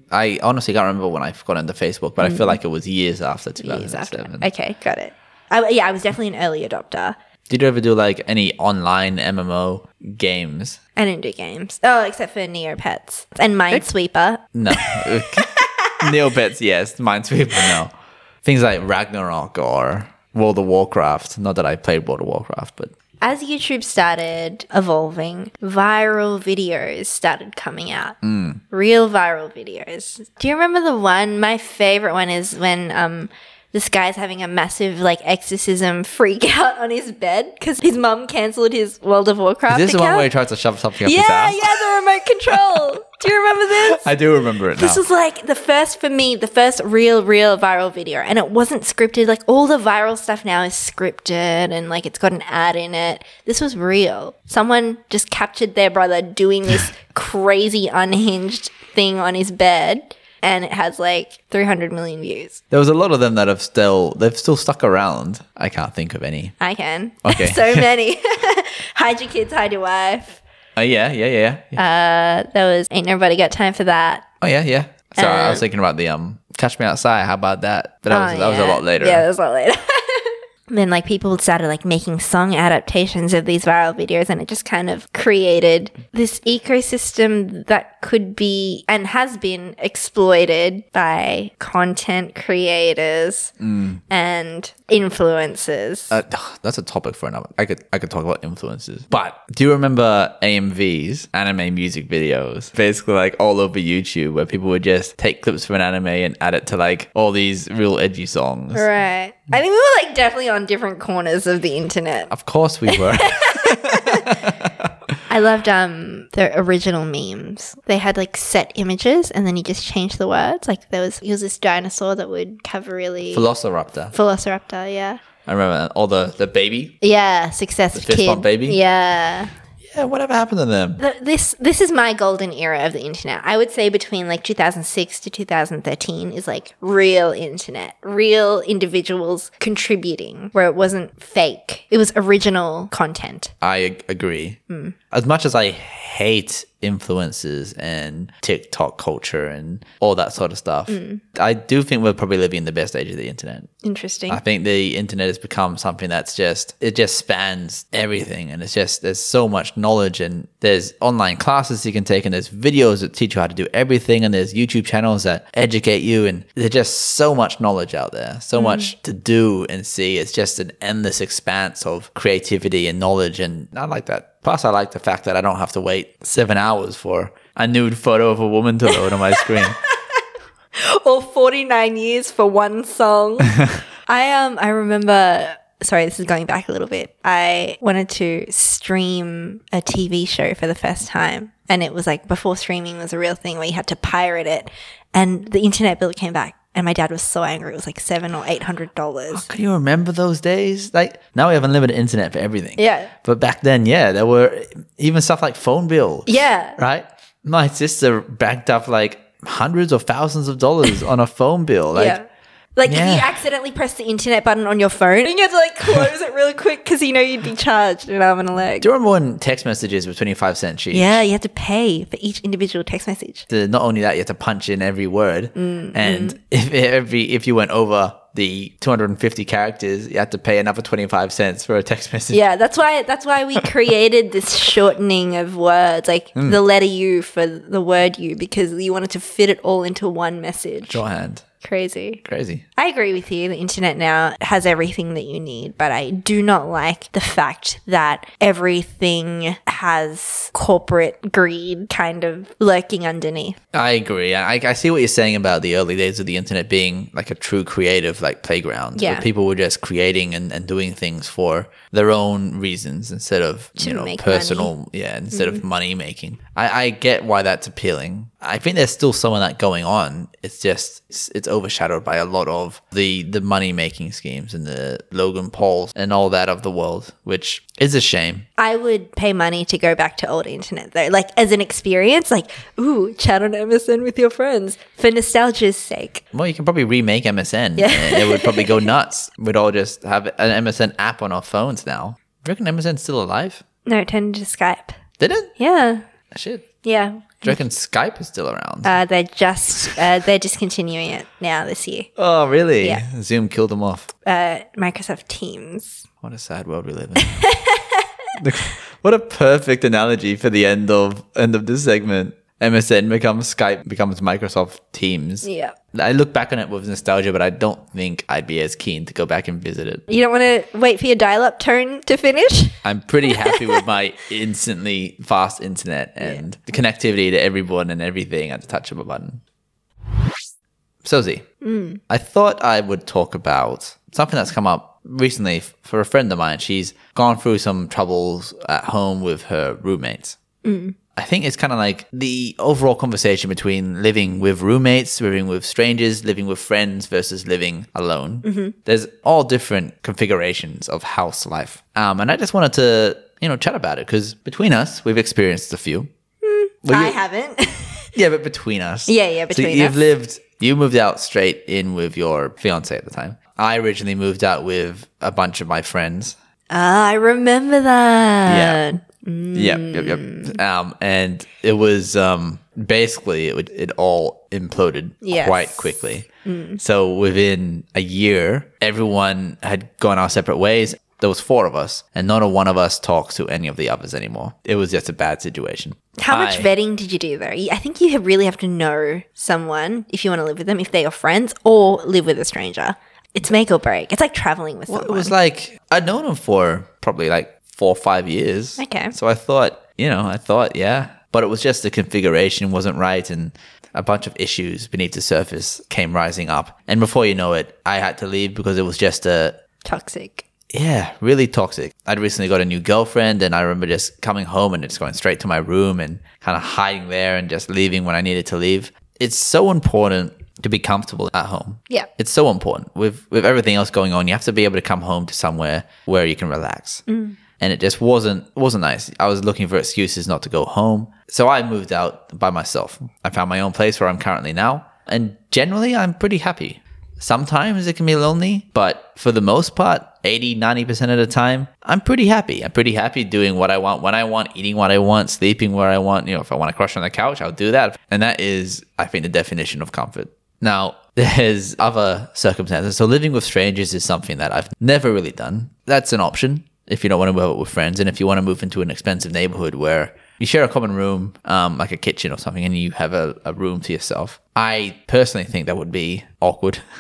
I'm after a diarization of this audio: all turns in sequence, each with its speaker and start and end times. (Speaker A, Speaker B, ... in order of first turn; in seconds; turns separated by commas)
Speaker A: 0.1-4.5, Speaker B: 2.2-2.6, Speaker B: 3.6-7.2, Speaker A: 7.5-10.8, Speaker B: 11.0-16.1, Speaker A: 14.6-17.9, Speaker A: 18.4-22.9, Speaker B: 23.2-28.2, Speaker A: 28.2-28.6, Speaker B: 28.7-40.3, Speaker A: 39.7-41.9, Speaker B: 41.0-44.1, Speaker A: 42.5-42.9, Speaker A: 43.7-45.0, Speaker B: 44.8-62.6, Speaker A: 62.7-66.5, Speaker B: 66.6-70.4, Speaker A: 67.2-67.9, Speaker A: 70.8-71.8, Speaker B: 71.8-74.3, Speaker A: 74.4-79.3, Speaker B: 75.2-75.6, Speaker B: 78.1-93.5, Speaker A: 93.6-94.0, Speaker B: 94.1-96.1, Speaker A: 96.1-108.9, Speaker B: 108.7-112.3, Speaker A: 112.3-114.9, Speaker B: 112.9-114.5, Speaker B: 115.3-123.5, Speaker A: 123.3-124.1, Speaker B: 124.1-125.2, Speaker A: 125.5-127.0, Speaker B: 127.0-129.5, Speaker A: 127.9-128.8, Speaker A: 129.8-131.0, Speaker B: 131.0-143.5, Speaker A: 143.6-144.6, Speaker B: 144.7-144.9, Speaker A: 145.1-153.7, Speaker B: 150.9-151.2, Speaker B: 153.8-154.4, Speaker A: 154.3-179.8, Speaker B: 168.6-168.9, Speaker B: 178.9-179.7, Speaker B: 180.8-199.5, Speaker A: 199.3-212.2, Speaker B: 202.8-203.1, Speaker B: 206.3-206.8, Speaker B: 211.9-218.9, Speaker A: 212.9-213.4, Speaker A: 218.8-221.2, Speaker B: 220.9-223.5, Speaker A: 223.5-232.4, Speaker B: 225.6-226.4, Speaker B: 232.3-241.0, Speaker A: 240.9-241.4, Speaker B: 241.6-242.2, Speaker A: 242.2-242.6, Speaker B: 242.8-253.6, Speaker A: 253.7-278.5, Speaker B: 259.0-259.3, Speaker B: 263.8-264.7, Speaker B: 265.3-265.6, Speaker B: 278.6-286.2, Speaker A: 286.3-293.6, Speaker B: 287.8-288.9, Speaker B: 293.9-295.0, Speaker A: 295.2-295.5, Speaker B: 295.6-296.0, Speaker A: 296.3-296.7, Speaker B: 296.8-297.6, Speaker A: 297.4-298.9, Speaker B: 298.8-302.1, Speaker A: 302.2-304.1, Speaker B: 304.2-306.1, Speaker A: 306.2-307.4, Speaker B: 307.2-308.1, Speaker A: 308.4-320.1, Speaker B: 315.4-315.8, Speaker B: 320.1-322.8, Speaker A: 322.8-329.4, Speaker B: 323.3-323.7, Speaker A: 331.0-331.5, Speaker B: 331.6-332.0, Speaker A: 332.1-340.4, Speaker B: 340.6-341.0, Speaker A: 341.2-356.1, Speaker B: 348.4-348.8, Speaker B: 356.4-358.1, Speaker A: 356.9-357.2, Speaker A: 358.1-366.4, Speaker B: 359.1-360.0, Speaker B: 366.7-370.6, Speaker A: 368.5-368.9, Speaker A: 369.6-376.3, Speaker B: 375.2-376.8, Speaker A: 376.8-386.7, Speaker B: 386.2-395.3, Speaker A: 394.9-409.6, Speaker B: 398.8-399.1, Speaker B: 409.9-410.4, Speaker A: 410.7-427.0, Speaker B: 427.1-427.4, Speaker A: 427.6-466.8